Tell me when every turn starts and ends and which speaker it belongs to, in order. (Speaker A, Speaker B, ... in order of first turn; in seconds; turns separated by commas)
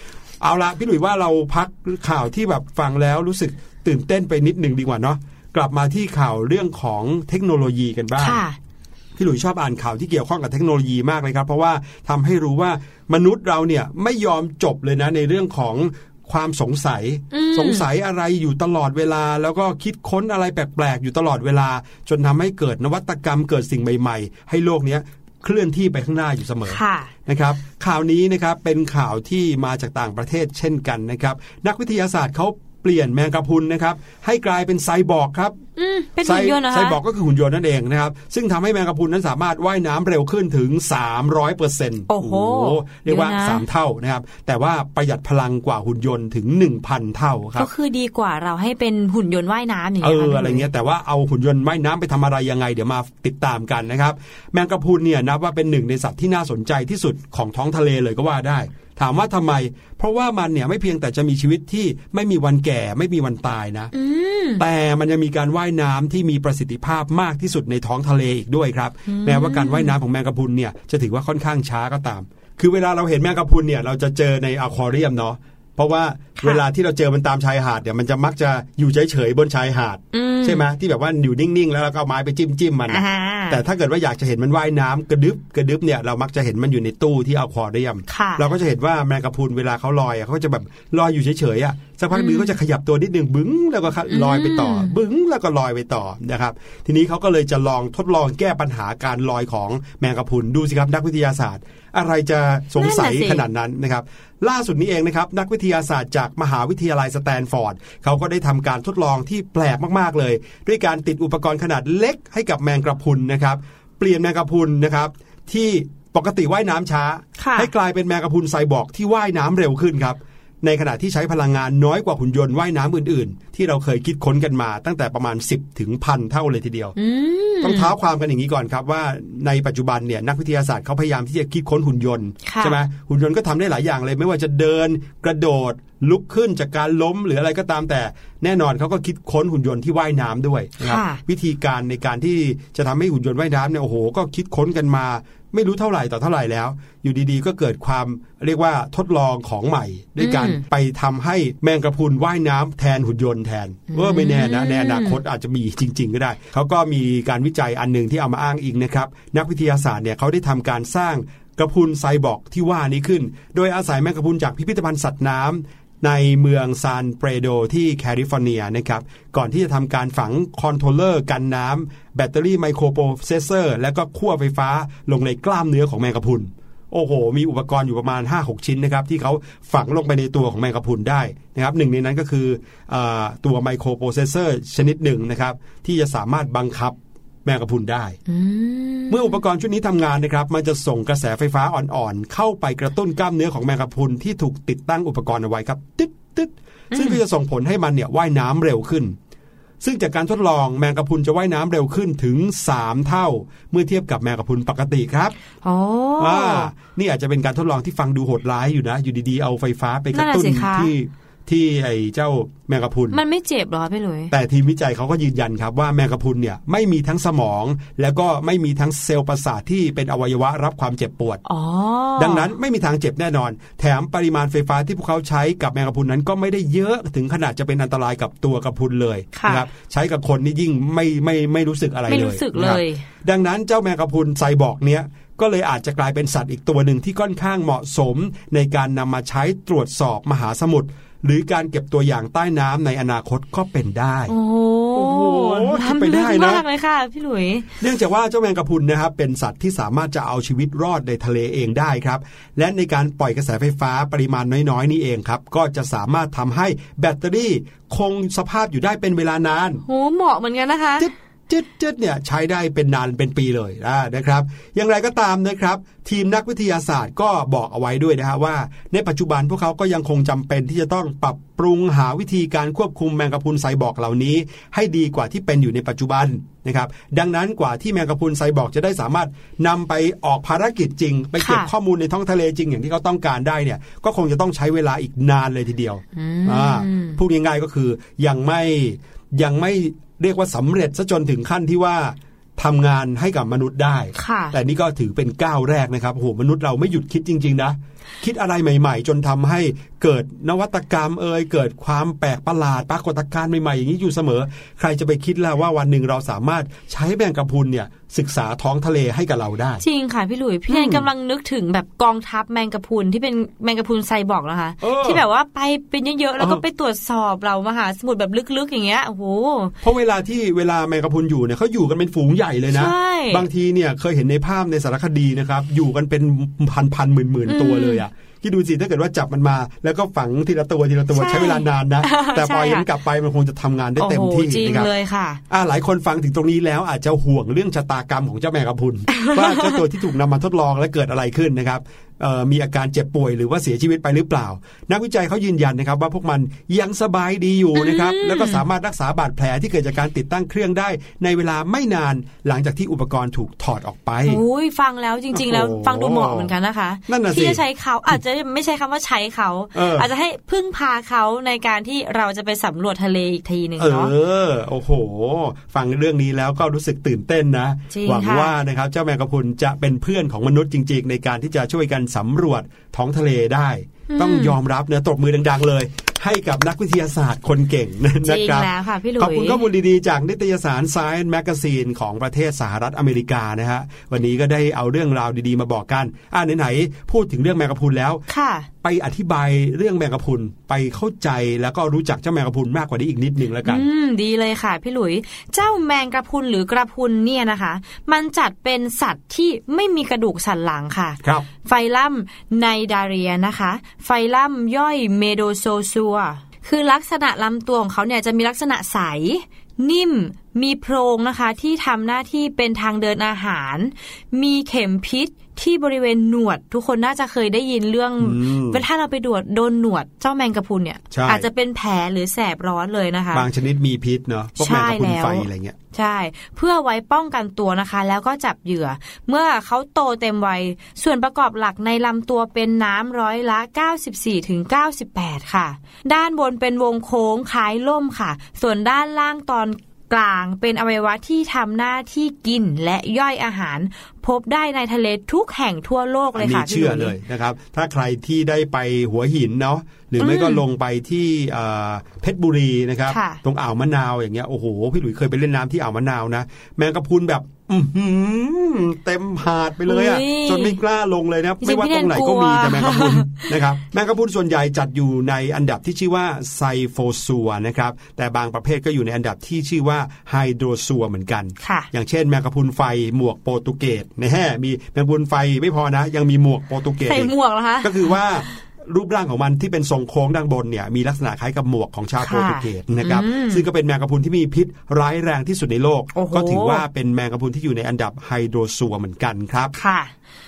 Speaker A: 0.4-8.4, Speaker B: 8.2-8.6, Speaker A: 9.2-35.6, Speaker B: 17.3-17.9, Speaker B: 26.7-27.1, Speaker B: 35.8-37.0, Speaker A: 36.2-47.7, Speaker B: 42.1-43.6, Speaker B: 47.6-50.7, Speaker A: 50.0-63.9, Speaker B: 63.9-64.6, Speaker A: 64.6-126.9, Speaker B: 69.1-70.0, Speaker B: 80.1-80.7, Speaker B: 82.9-83.6, Speaker B: 88.1-88.5, Speaker B: 92.1-92.5, Speaker B: 94.1-95.0, Speaker B: 102.8-103.4, Speaker B: 117.4-117.7, Speaker B: 127.0-127.9, Speaker A: 127.6-188.2, Speaker B: 132.5-132.8, Speaker B: 140.8-141.2, Speaker B: 150.2-150.6, Speaker B: 153.9-155.2, Speaker B: 188.3-189.4, Speaker A: 189.1-199.2, Speaker B: 196.9-197.2, Speaker A: 199.8-205.3, Speaker B: 205.6-206.7, Speaker A: 206.2-213.2, Speaker B: 210.1-210.9, Speaker B: 213.1-214.3, Speaker A: 214.3-221.4, Speaker B: 221.4-222.5, Speaker A: 222.2-244.3, Speaker B: 229.3-229.7, Speaker B: 232.1-233.0, Speaker B: 244.3-247.7, Speaker A: 244.9-246.7, Speaker A: 247.8-259.8, Speaker B: 259.9-261.1, Speaker A: 261.0-309.8, Speaker B: 281.4-281.7, Speaker B: 286.1-287.2, Speaker B: 294.2-294.6, Speaker B: 309.8-319.7, Speaker A: 310.7-311.1, Speaker A: 314.8-315.2, Speaker A: 319.8-334.9, Speaker B: 322.7-323.4, Speaker B: 327.5-328.0, Speaker B: 331.1-332.9, Speaker B: 334.0-335.4, Speaker A: 335.5-354.4, Speaker B: 339.2-339.7, Speaker B: 347.8-348.6, Speaker B: 354.3-364.1, Speaker A: 355.3-356.5, Speaker A: 357.1-358.2, Speaker A: 359.7-360.1, Speaker A: 363.8-388.2, Speaker B: 367.9-368.5, Speaker B: 374.1-374.6, Speaker B: 378.2-379.6, Speaker B: 388.3-388.7, Speaker A: 388.8-393.9, Speaker B: 393.6-423.5, Speaker A: 418.2-418.8, Speaker A: 421.1-421.5, Speaker A: 423.3-425.8, Speaker B: 424.6-447.1, Speaker A: 446.4-489.7, Speaker B: 450.2-450.6, Speaker B: 453.1-453.4, Speaker B: 459.9-460.8, Speaker B: 461.6-463.4, Speaker B: 471.6-471.9, Speaker B: 477.1-478.2, Speaker B: 482.2-483.6, Speaker B: 486.1-486.8, Speaker B: 489.7-490.1